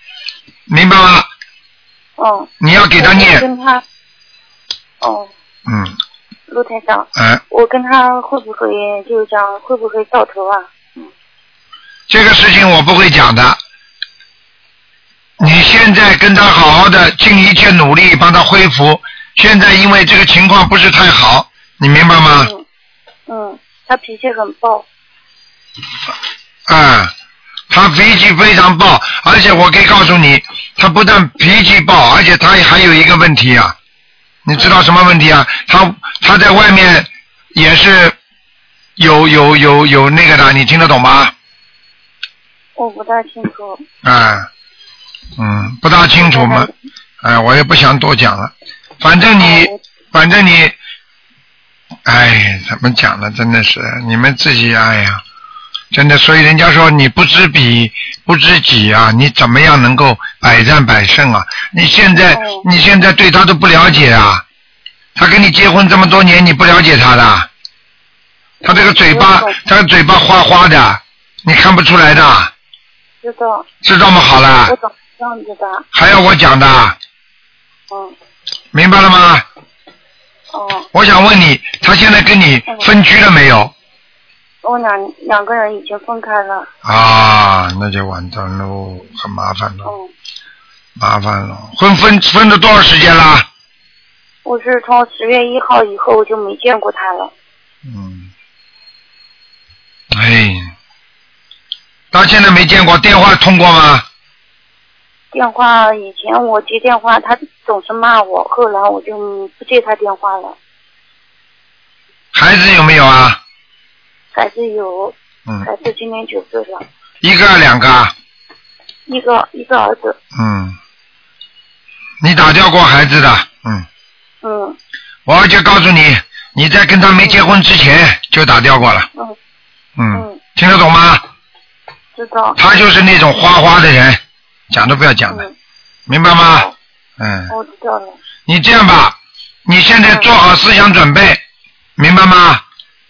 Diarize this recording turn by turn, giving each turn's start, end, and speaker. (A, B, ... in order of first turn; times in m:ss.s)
0:00.7-0:01.3 A
0:02.2-0:03.8 B
0:02.6-0:03.5 A
0:05.0-0:05.3 B
0:05.7-0:06.0 A
0:06.5-0:11.1 B
0:07.2-0:07.4 A
0:12.1-0:13.6 A
0:15.4-0:22.5 A
0:22.4-0:22.6 B
0:23.3-0:24.8 B
0:26.7-0:27.1 A
0:27.7-0:33.8 A
0:34.4-0:38.2 A
0:34.6-0:34.8 B
0:39.0-0:41.3 A
0:42.8-0:43.8 B
0:44.0-0:44.5 A
0:45.4-0:46.7 A
0:46.2-0:46.7 B
0:47.2-0:50.8 A
0:49.4-0:49.8 B
0:52.1-0:55.2 A
0:55.9-1:04.4 A
1:02.3-1:02.6 B
1:05.2-1:07.5 A
1:08.6-1:12.5 A
1:08.7-1:09.6 B
1:13.2-1:13.7 B
1:13.8-1:14.7 A
1:14.7-1:15.8 B
1:15.9-1:17.0 A
1:18.7-1:19.4 A
1:20.5-1:20.9 B
1:20.9-1:23.7 A
1:24.6-1:26.7 B
1:26.8-1:29.9 A
1:29.8-1:30.1 B
1:31.0-1:33.5 A
1:34.4-1:37.3 B
1:37.8-1:38.3 A
1:40.1-1:40.7 A
1:42.1-1:44.0 A
1:45.3-1:50.6 B
1:52.3-1:53.4 A
1:54.3-1:56.8 B
1:57.2-1:58.1 A
1:59.1-2:00.2 B
2:00.3-2:00.8 A
2:02.2-2:03.8 A
2:04.4-2:04.8 B
2:05.3-2:09.1 A
2:10.0-2:11.2 A
2:10.1-2:10.4 B
2:12.2-2:12.6 B
2:12.6-2:15.5 A
2:16.1-2:16.7 A
2:17.2-2:17.5 A
2:17.5-2:18.2 B
2:18.5-2:21.4 A
2:22.0-2:22.6 A